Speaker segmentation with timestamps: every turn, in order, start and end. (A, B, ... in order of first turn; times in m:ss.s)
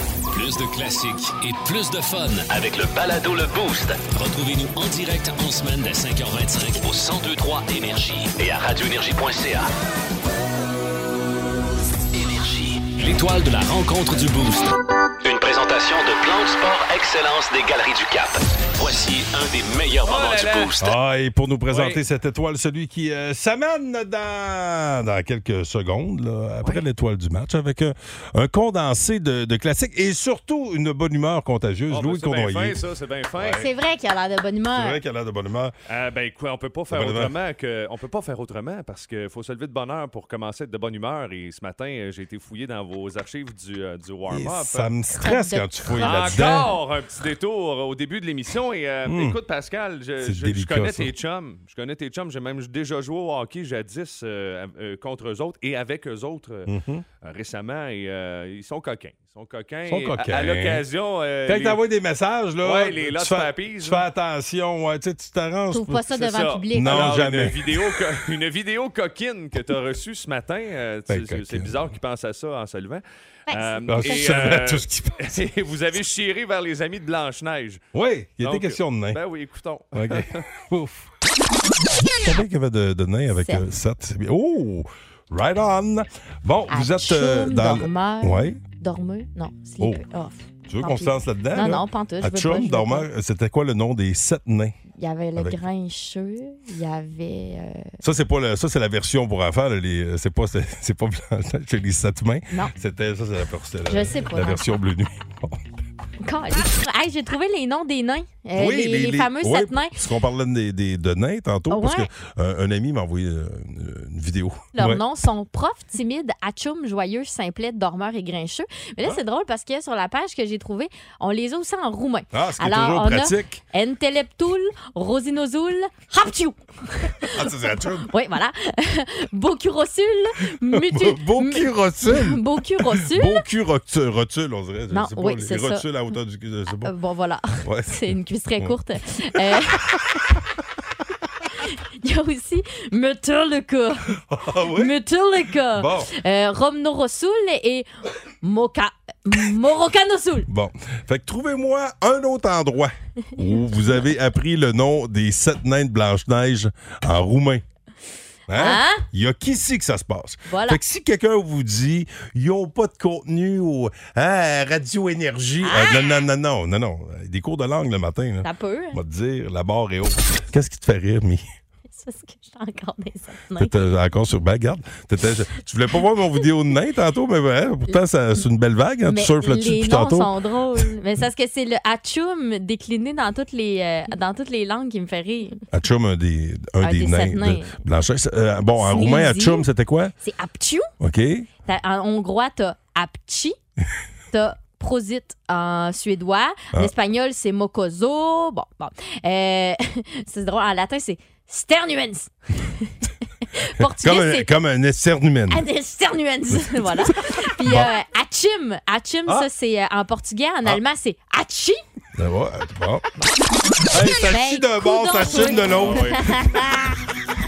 0:00.3-0:09.7 A
0:12.1-0:20.9 A
0:20.0-0:20.8 B
0:20.8-0:32.8 C
0:21.7-0:22.0 B
0:31.9-0:33.7 B
0:33.3-0:33.7 C
0:33.6-0:35.0 D
0:34.7-0:35.7 C
0:35.9-0:44.9 B
0:36.9-0:37.3 C
0:44.3-0:46.7 C
0:45.1-0:46.5 D
0:45.9-1:01.8 B
0:49.0-0:49.4 C
0:50.2-0:51.1 C
0:56.6-0:57.0 C
0:59.9-1:00.8 C
1:01.4-1:06.1 C
1:02.6-1:04.0 B
1:05.7-1:07.3 D
1:06.1-1:17.8 B
1:06.7-1:08.1 C
1:11.1-1:11.7 C
1:13.5-1:14.3 D
1:13.9-1:15.4 C
1:17.9-1:19.2 C
1:18.4-1:20.4 B
1:19.9-1:21.1 C
1:22.2-1:28.6 C
1:26.7-1:33.1 D
1:30.7-1:34.8 C
1:35.0-1:38.0 D
1:38.0-1:45.7 C
1:43.9-1:44.7 D
1:46.2-1:49.9 D
1:48.5-1:55.0 C
1:51.7-1:52.1 D
1:54.8-2:13.4 D
2:02.3-2:03.6 C
2:07.3-2:08.1 C
2:10.7-2:16.9 C
2:14.9-2:15.9 D
2:16.8-2:19.8 D
2:17.6-2:18.8 C
2:19.3-2:20.4 C
2:21.6-2:24.2 D
2:24.2-2:24.9 C
2:24.7-2:27.8 D
2:25.7-2:26.1 C
2:28.4-2:30.5 D
2:30.5-2:37.6 C
2:38.5-2:51.4 C
2:38.5-2:39.0 D
2:40.5-2:40.8 D
2:45.6-2:46.2 D
2:48.4-2:49.0 D
2:51.9-2:53.8 D
2:53.6-3:00.8 C
2:59.1-3:05.6 D
3:05.7-3:10.1 C
3:06.8-3:07.8 D
3:08.8-3:09.6 D
3:10.2-3:10.9 D
3:11.0-3:11.5 C
3:11.6-3:13.6 D
3:14.3-3:22.9 D
3:23.5-3:24.5 D
3:23.8-3:25.6 C
3:25.5-3:31.8 D
3:26.5-3:27.9 C
3:32.2-3:33.0 C
3:33.9-3:36.9 C
3:34.0-3:36.7 D